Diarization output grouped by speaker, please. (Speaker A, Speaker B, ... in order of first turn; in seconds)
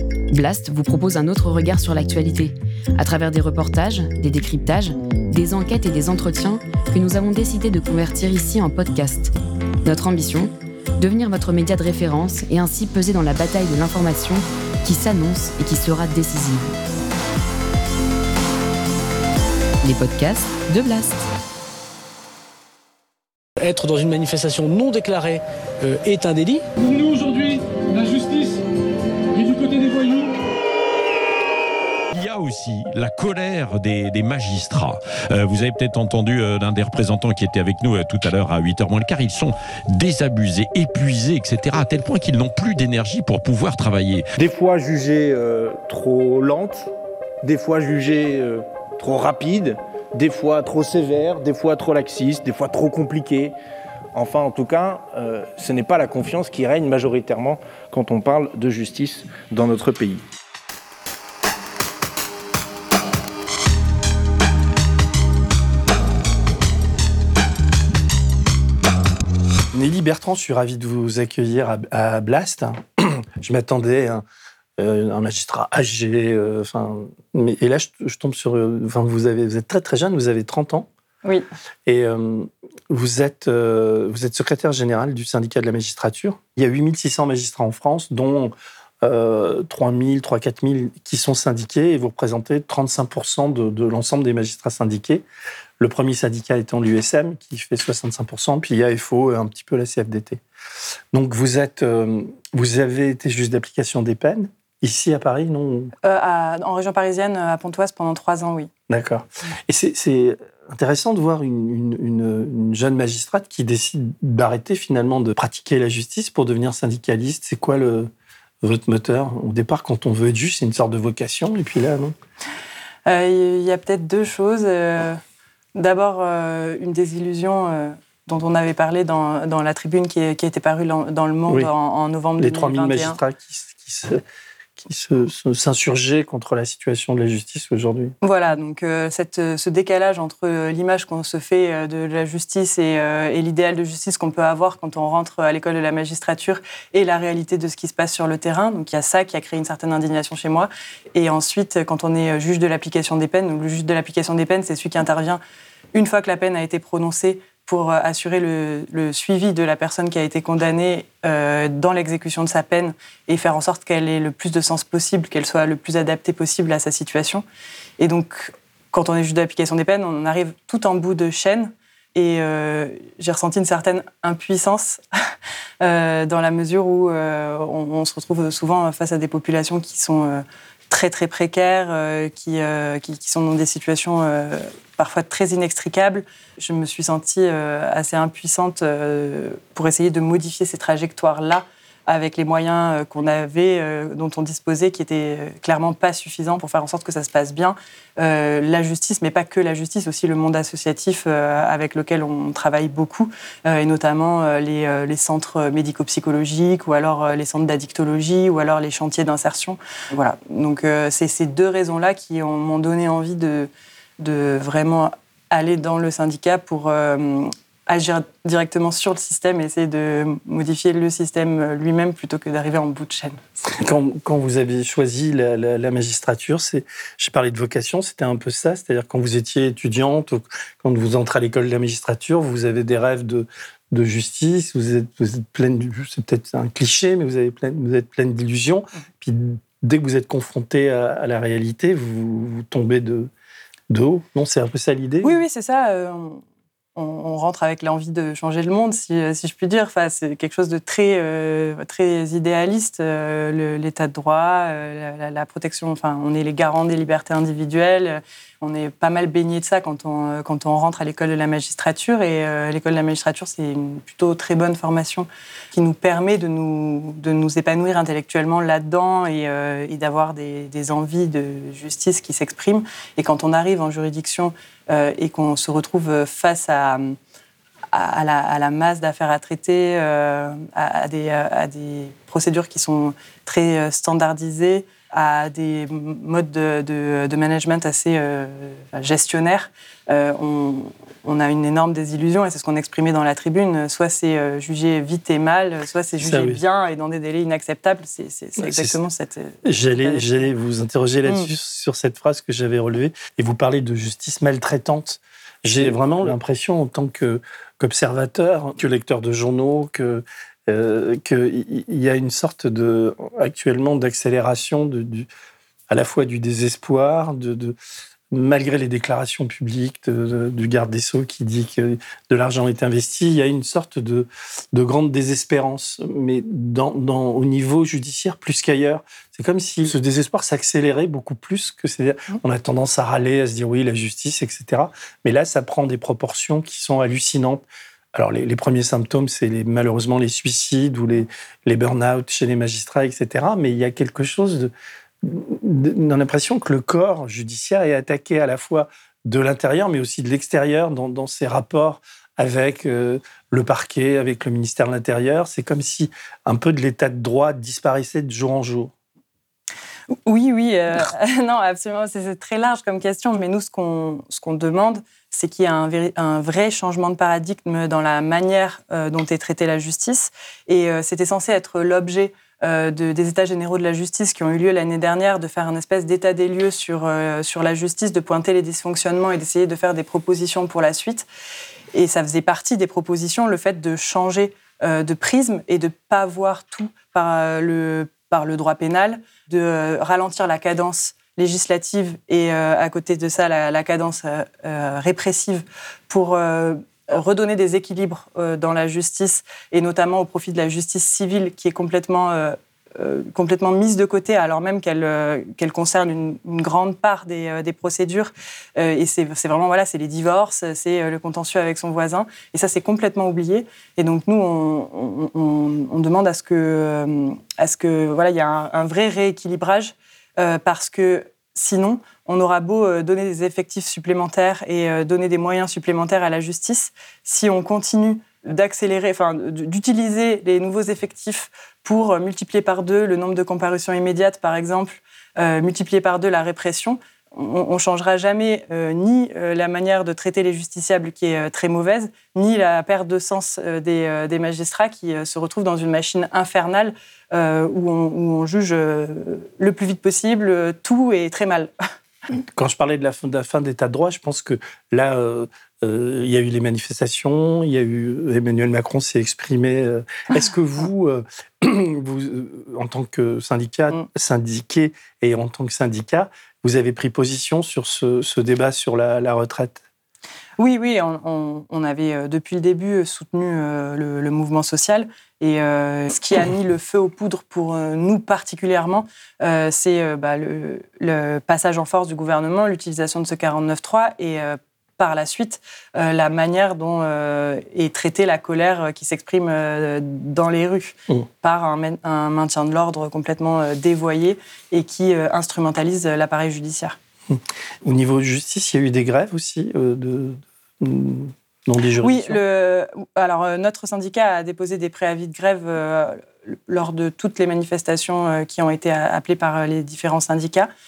Speaker A: 0.3-9.3, 9.8-16.8, 19.8-21.3
Speaker B: 23.6-26.6
Speaker C: 26.8-28.6, 29.3-30.3
Speaker D: 32.1-44.2
Speaker E: 44.4-46.9, 47.4-53.5, 54.1-60.2
Speaker F: 69.7-74.2, 74.8-80.9, 81.8-95.2, 95.8-100.4, 101.1-105.9, 108.9-118.1, 118.6-122.1, 132.4-134.2, 134.8-138.1, 223.7-243.3, 243.9-245.4, 296.2-296.6, 298.6-299.0, 299.6-315.3, 315.9-317.8, 318.3-358.9, 452.5-469.8, 497.3-502.4
Speaker G: 106.0-108.7, 123.1-125.2, 125.7-133.2, 138.2-155.4, 155.9-167.4, 168.0-175.0, 175.8-223.4, 245.2-246.4, 246.9-277.1, 277.9-300.4, 360.2-381.2, 381.9-451.7, 470.6-497.0, 502.0-510.7